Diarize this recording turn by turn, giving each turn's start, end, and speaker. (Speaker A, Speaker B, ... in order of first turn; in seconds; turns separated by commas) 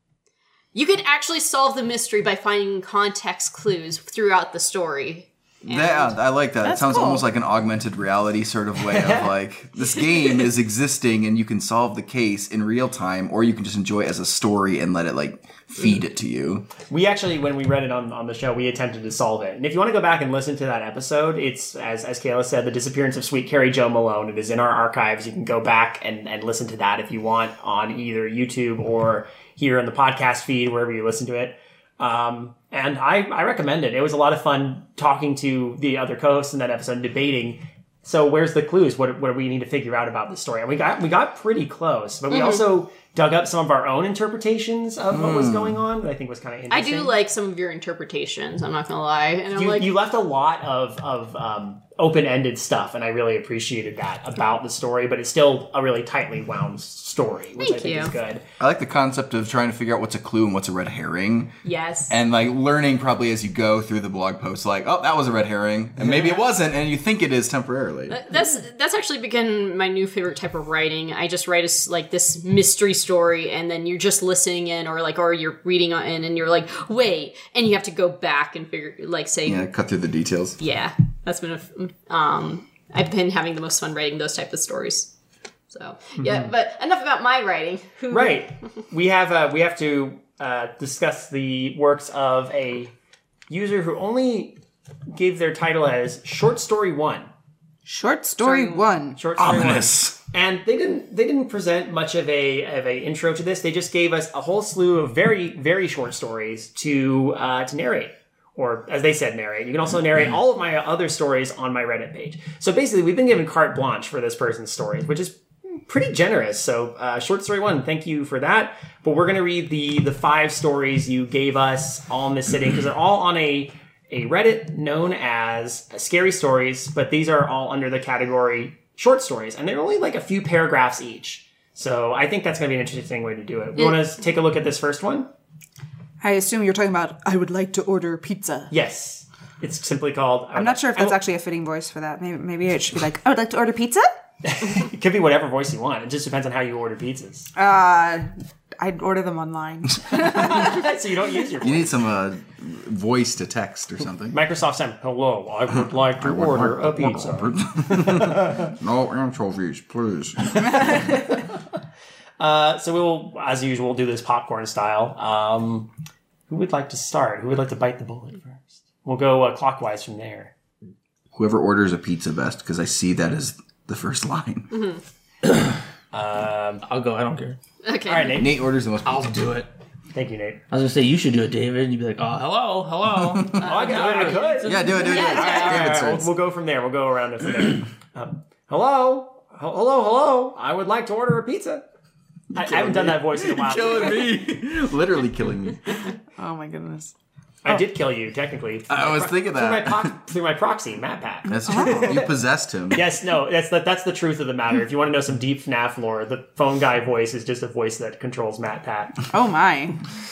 Speaker A: 0.7-6.2, Speaker B: 5.7-16.7, Speaker C: 6.6-7.2, Speaker D: 8.8-9.3, Speaker D: 16.9-47.1, Speaker A: 42.3-42.6, Speaker B: 45.1-45.8, Speaker A: 46.7-49.9, Speaker D: 49.5-58.4, Speaker A: 57.6-58.1, Speaker B: 58.6-61.5, Speaker A: 61.6-62.1, Speaker B: 62.1-68.2, Speaker A: 68.1-79.7, Speaker B: 79.5-80.6, Speaker A: 80.6-85.1, Speaker A: 85.7-88.4, Speaker D: 86.2-86.5, Speaker D: 88.1-92.9, Speaker D: 93.5-94.6, Speaker D: 95.1-97.3, Speaker C: 97.9-99.2, Speaker A: 98.4-98.8, Speaker D: 99.2-135.3, Speaker B: 99.4-100.2, Speaker C: 136.2-138.7, Speaker D: 138.7-141.2, Speaker C: 140.5-144.1, Speaker D: 144.4-147.5, Speaker C: 147.5-150.8, Speaker D: 150.2-152.0, Speaker B: 151.6-154.4, Speaker D: 154.3-158.7, Speaker B: 156.2-161.2, Speaker D: 162.4-165.9, Speaker D: 166.5-170.5, Speaker B: 171.3-174.7, Speaker A: 174.7-175.0, Speaker E: 175.5-175.7, Speaker D: 176.1-176.8, Speaker E: 176.8-177.6, Speaker A: 177.8-178.4, Speaker D: 178.1-178.5, Speaker B: 178.3-179.4, Speaker E: 179.0-179.7, Speaker D: 180.1-180.6, Speaker E: 180.7-185.2, Speaker A: 183.6-184.0, Speaker D: 183.6-191.8, Speaker B: 184.6-186.3, Speaker A: 184.9-185.9, Speaker D: 192.5-194.3, Speaker B: 192.5-196.1, Speaker C: 196.4-197.1, Speaker D: 197.6-202.4, Speaker B: 198.9-200.1, Speaker B: 201.5-203.0, Speaker C: 201.7-202.2, Speaker D: 202.9-209.2, Speaker C: 209.3-210.0